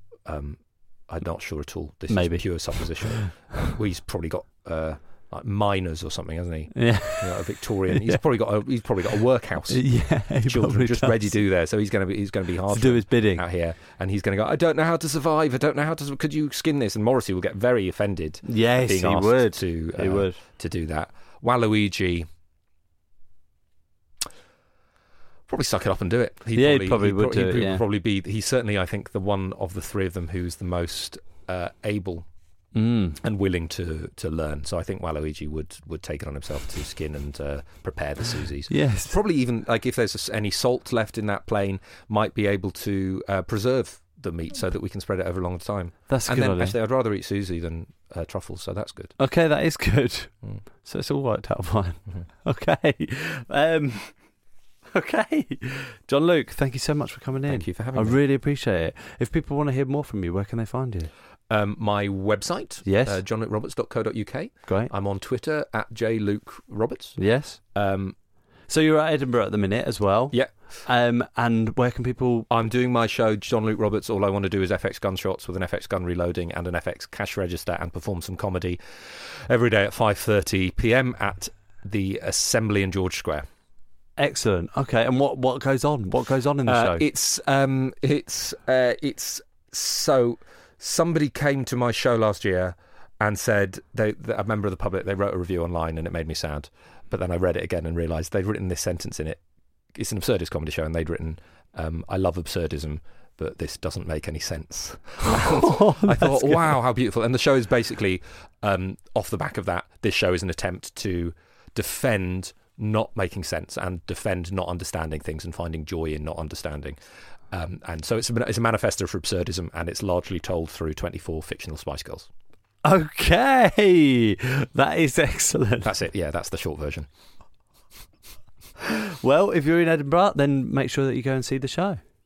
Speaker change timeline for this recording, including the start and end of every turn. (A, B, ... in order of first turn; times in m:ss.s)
0:00.2-0:09.8 A
0:02.1-0:03.3 B
0:06.7-0:08.2 B
0:09.7-0:11.3 B
0:10.4-0:22.3 A
0:12.7-0:13.4 B
0:18.4-0:20.4 B
0:25.5-0:32.3 A
0:26.5-0:27.8 B
0:32.7-0:33.2 B
0:33.2-0:49.1 A
0:38.7-0:39.2 B
0:46.1-0:46.8 B
0:49.2-0:50.3 B
0:50.8-0:54.1 B
0:54.9-1:01.1 B
0:57.5-0:58.2 A
1:01.5-1:07.2 A
1:02.8-1:03.2 B
1:04.7-1:04.9 B
1:07.2-1:07.6 B
1:07.7-1:08.1 A
1:08.7-1:12.5 B
1:12.5-1:23.4 A
1:24.2-1:27.0 B
1:26.7-1:39.4 A
1:39.9-1:57.0 A
1:45.2-1:46.8 B
1:57.5-2:02.3 A
2:02.8-2:05.9 B
2:05.8-2:07.1 A
2:08.8-2:12.0 B